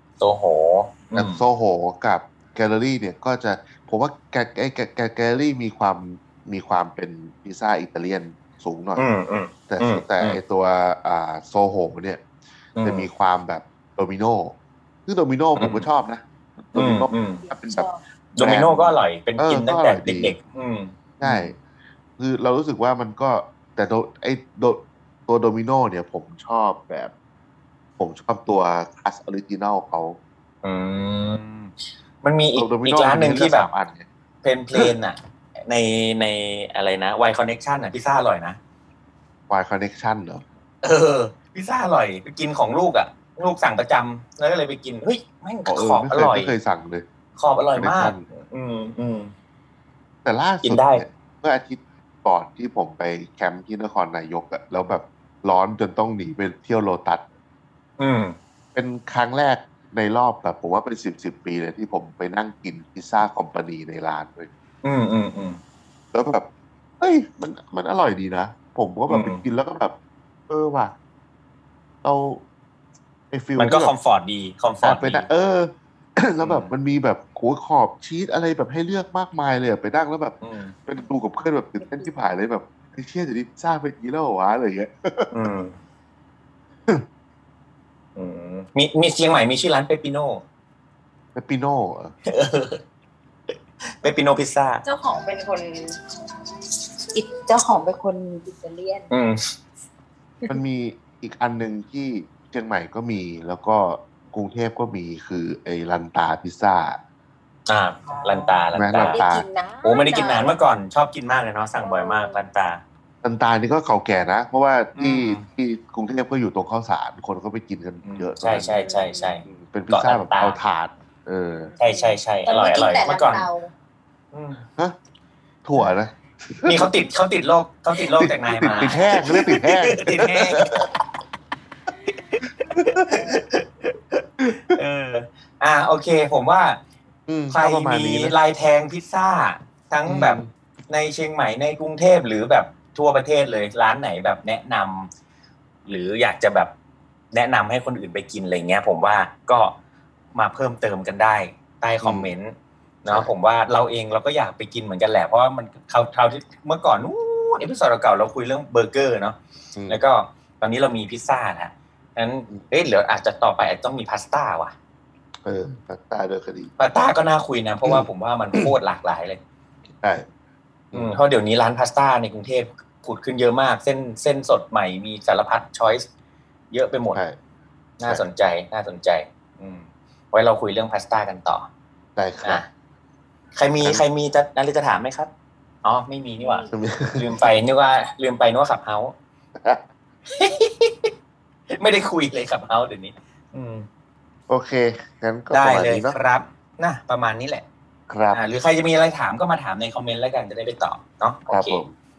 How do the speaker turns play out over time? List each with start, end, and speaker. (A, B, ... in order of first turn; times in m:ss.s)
0:00.2-0:01.4 A
0:01.1-0:09.0 B
0:09.0-0:10.4 A
0:09.7-0:12.2 B
0:12.8-0:13.1 A
0:12.8-0:14.5 B
0:15.0-0:20.4 B
0:15.6-0:15.9 A
0:16.7-0:17.4 A
0:17.4-0:18.0 C
0:18.4-0:21.6 A
0:21.2-0:21.6 B
0:22.2-0:27.1 B
0:28.0-0:30.2 B
0:30.6-0:33.7 A
0:32.6-0:34.1 B
0:34.4-0:38.6 A
0:39.5-0:40.4 B
0:40.8-0:46.6 A
0:45.6-0:47.0 B
0:47.4-0:49.3 A
0:47.7-0:48.2 B
0:50.2-0:57.2 B
0:50.6-0:51.0 A
0:58.0-0:58.4 A
0:58.7-1:04.5 B
1:04.8-1:05.6 A
1:06.1-1:06.4 B
1:07.0-1:09.9 B
1:09.1-1:09.4 A
1:10.5-1:10.9 B
1:12.0-1:12.4 B
1:13.3-1:13.9 B
1:13.6-1:15.3 A
1:14.8-1:25.3 B
1:16.4-1:16.7 A
1:20.4-1:20.7 A
1:25.3-1:25.8 A
1:28.2-1:30.4 A
1:31.3-1:32.1 B
1:32.3-1:32.8 A
1:34.0-1:34.8 A
1:34.8-1:36.0 C
1:37.1-1:39.1 C
1:39.1-1:39.4 A
1:40.5-1:47.0 B
1:47.7-1:49.2 A
1:48.1-1:50.5 C
1:48.7-1:49.4 B
1:49.8-1:52.8 A
1:51.8-1:52.4 C
1:53.2-1:58.9 B
1:55.0-1:55.4 A
1:58.0-2:00.6 A
1:58.7-1:59.3 C
1:59.4-2:01.7 B
2:01.6-2:03.7 C
2:01.8-2:03.4 A
2:04.3-2:04.6 A
2:05.6-2:06.9 B
2:06.6-2:10.9 A
2:08.0-2:10.9 B
2:12.7-2:16.8 A
2:12.7-2:13.0 B
2:17.3-2:18.3 B
2:17.5-2:25.1 A
2:20.0-2:20.5 B
2:25.9-2:26.7 A
2:27.3-2:29.7 A
2:30.3-2:44.7 A
2:32.0-2:32.3 B
2:39.8-2:40.0 B
2:45.4-2:46.7 B
2:46.8-2:49.4 A
2:47.8-2:48.7 B
2:50.0-2:50.3 B
2:50.9-2:51.2 B
2:50.9-2:56.0 A
2:56.7-2:57.2 A
2:58.0-3:01.7 A
3:02.2-3:02.6 B
3:03.6-3:05.3 A
3:05.8-3:09.1 A
3:06.4-3:06.7 C
3:06.7-3:07.4 B
3:10.3-3:11.1 A
3:11.7-3:13.9 A
3:14.5-3:16.2 B
3:15.5-3:17.6 A
3:18.1-3:18.4 B
3:18.3-3:21.8 A
3:21.5-3:21.9 B